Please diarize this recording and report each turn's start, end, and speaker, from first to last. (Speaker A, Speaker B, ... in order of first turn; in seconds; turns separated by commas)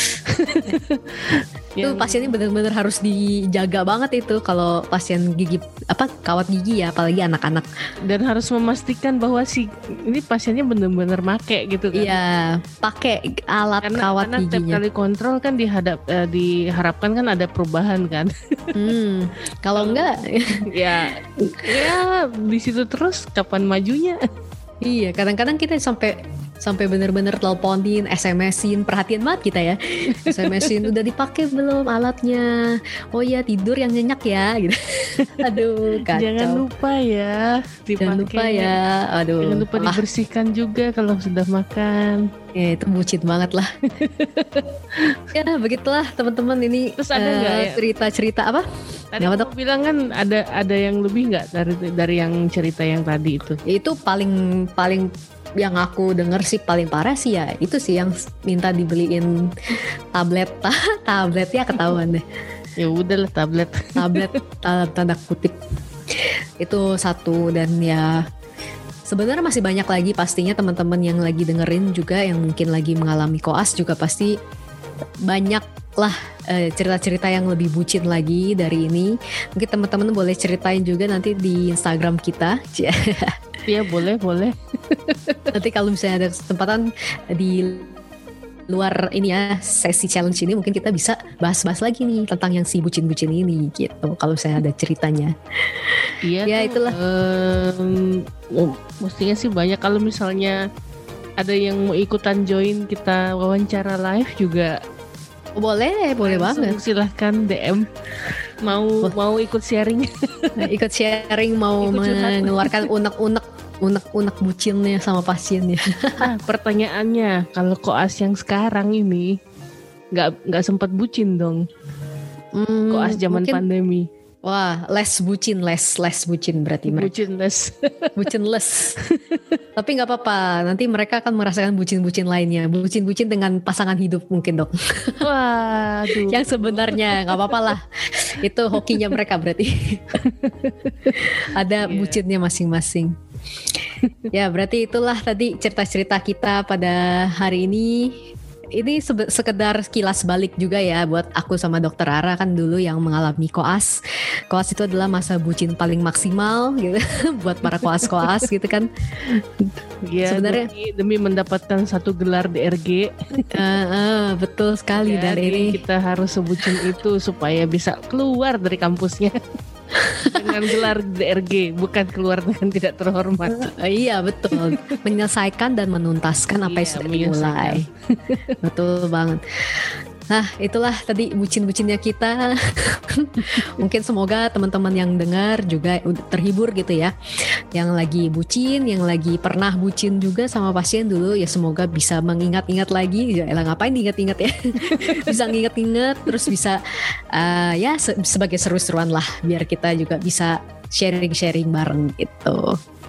Speaker A: 0.3-0.8, Speaker B: 0.6-2.3, Speaker A: 1.8-7.7, Speaker B: 8.1-12.2, Speaker A: 11.9-14.8, Speaker B: 13.8-18.8, Speaker A: 18.8-20.7, Speaker B: 19.8-20.1, Speaker B: 20.6-24.2, Speaker A: 24.8-36.6, Speaker B: 30.1-30.8, Speaker B: 36.1-38.8, Speaker A: 38.0-40.0, Speaker B: 39.4-42.2, Speaker A: 42.6-43.7, Speaker B: 44.0-45.2, Speaker A: 45.3-48.7, Speaker B: 47.0-47.8, Speaker B: 49.1-53.6, Speaker A: 49.2-49.5, Speaker A: 53.7-59.5, Speaker A: 60.1-62.2, Speaker B: 62.8-64.3, Speaker A: 64.0-65.6, Speaker A: 66.6-68.2, Speaker A: 69.1-74.4, Speaker A: 75.3-83.4, Speaker B: 83.7-85.4, Speaker A: 85.5-87.9, Speaker A: 88.7-95.3, Speaker B: 96.2-100.6, Speaker A: 96.5-97.0, Speaker B: 101.4-104.8, Speaker A: 105.6-106.8, Speaker B: 106.2-107.9, Speaker B: 108.6-110.5, Speaker A: 110.6-116.3, Speaker B: 111.8-112.9, Speaker B: 116.2-119.4, Speaker B: 120.1-121.7, Speaker A: 122.5-123.7, Speaker B: 122.9-124.1, Speaker A: 124.5-127.1, Speaker B: 126.9-128.2, Speaker A: 128.2-129.0, Speaker B: 129.0-129.4, Speaker A: 129.8-135.2, Speaker B: 135.2-137.6, Speaker A: 136.3-140.2, Speaker B: 140.2-141.2, Speaker A: 141.2-143.1, Speaker B: 141.8-142.2, Speaker A: 144.3-148.2, Speaker A: 148.8-154.0, Speaker A: 154.5-158.9, Speaker B: 160.1-163.4, Speaker A: 160.2-160.7, Speaker A: 163.5-165.8, Speaker B: 164.9-169.4, Speaker A: 170.0-170.5, Speaker B: 170.3-173.7, Speaker A: 173.5-177.9, Speaker B: 174.5-175.0, Speaker B: 176.7-178.4, Speaker A: 178.6-179.4, Speaker A: 180.3-187.1, Speaker A: 187.7-202.8, Speaker B: 194.9-195.4